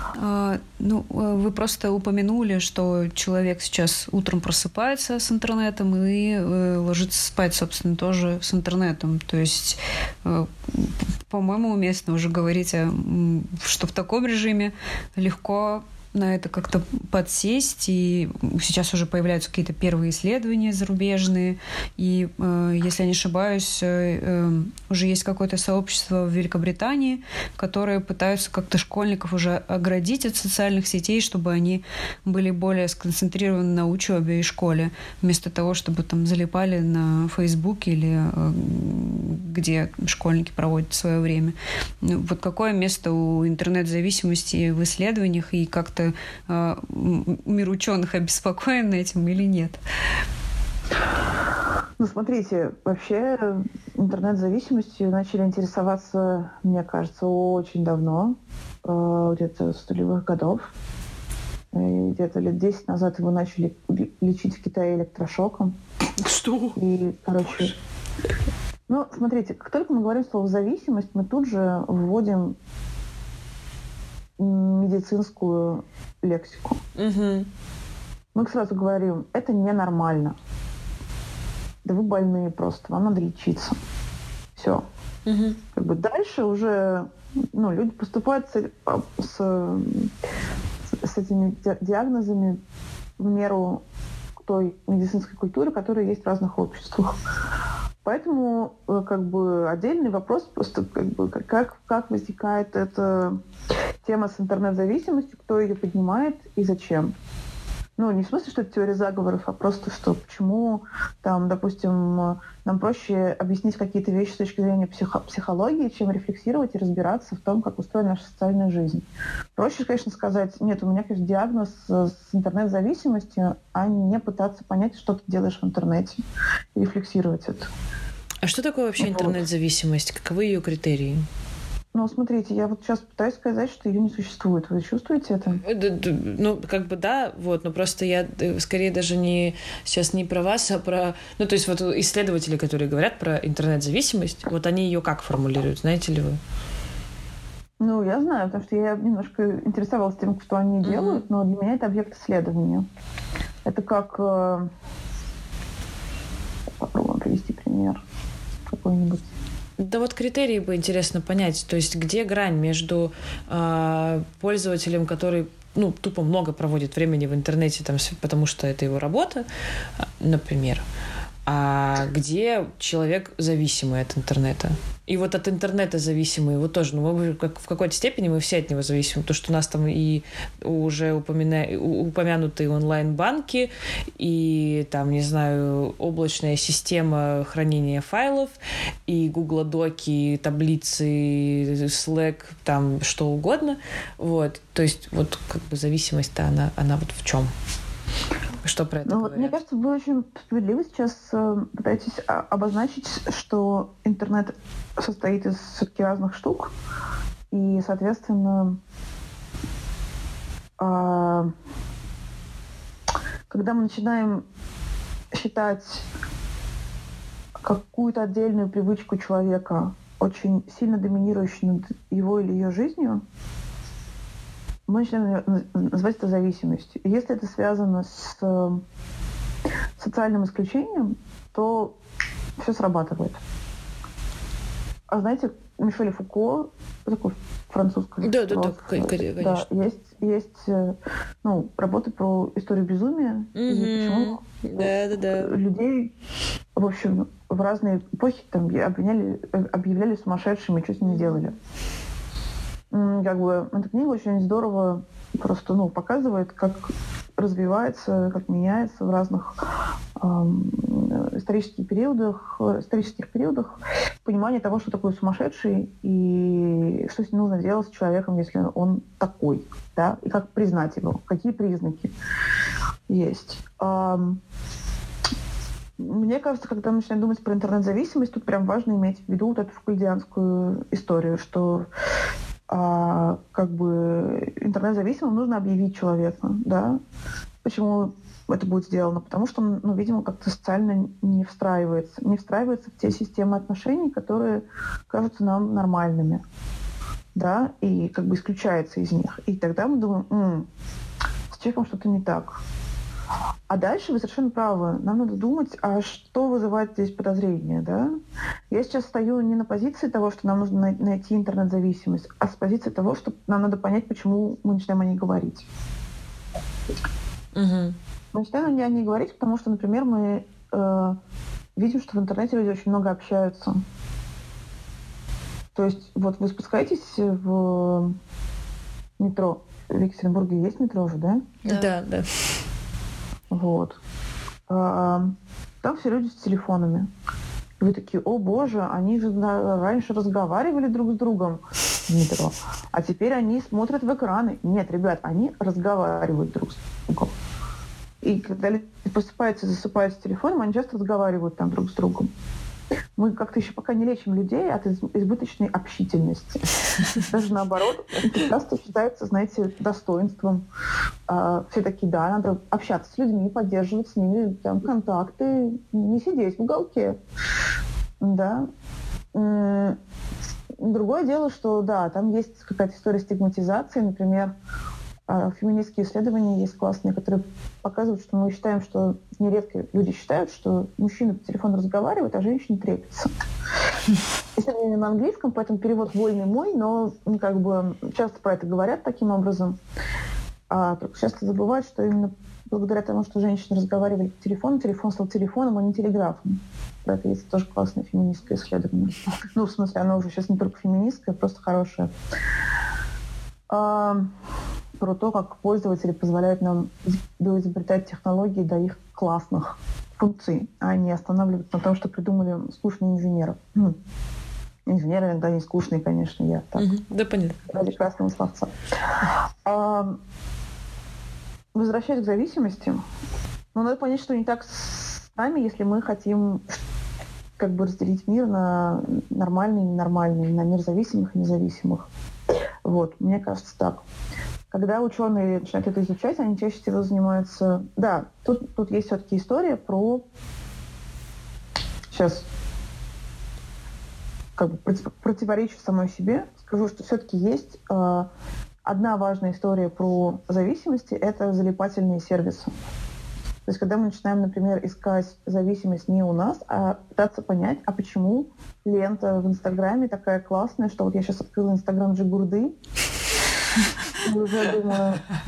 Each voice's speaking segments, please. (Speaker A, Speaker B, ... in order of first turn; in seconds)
Speaker A: 0.1-49.8
Speaker B: 52.0-60.7, 61.7-65.7, 66.8-67.7, 68.9-72.5, 74.4-76.8, 78.3-80.4, 81.8-83.8, 84.5-84.8, 85.7-90.1, 91.0-92.6, 93.2-93.8, 94.4-97.2, 98.0-103.4, 104.0-107.1, 108.0-126.2, 126.7-127.7, 129.0-129.4, 131.9-135.6, 147.8-152.9, 153.6-154.7, 156.8-158.0, 158.7-159.2, 199.1-206.7, 207.5-208.8, 210.8-211.5, 213.5-214.4, 215.3-216.1, 217.6-223.2, 224.9-228.8, 230.0-231.9, 232.6-233.4, 235.1-246.1, 246.8-251.5, 252.9-259.6, 260.2-272.1, 273.1-274.4, 276.0-281.9, 282.7-287.0, 287.6-296.4, 297.3-300.7, 301.5-302.6, 303.7-308.1, 308.7-315.7, 318.3-321.2, 321.8-323.8, 325.7-328.1, 329.2-331.5, 333.5-334.0, 334.7-337.1, 337.8-347.3, 348.2-352.3, 353.1-356.6, 357.2-360.6, 361.3-367.2, 368.2-368.6, 369.3-370.0, 370.8-374.5, 375.3-383.3, 384.6-389.8, 390.7-402.1, 403.7-404.3, 405.0-413.9, 414.9-416.9, 417.7-418.7, 419.6-420.2, 421.7-423.0, 423.7-426.7, 427.6-432.1, 432.8-434.0, 434.7-440.2, 442.1-442.4, 444.6-448.3, 448.8-452.7, 453.6-462.7, 464.2-465.2
Speaker C: 66.2-66.8, 67.4-67.7, 77.0-77.5, 85.2-85.6, 128.4-131.2, 135.6-146.4, 150.8-151.2, 159.8-169.4, 170.0-170.8, 171.4-188.5, 189.1-197.5, 198.6-199.6, 238.2-239.6, 243.5-245.6, 251.1-251.4, 317.5-317.9, 331.6-332.3, 416.8-417.6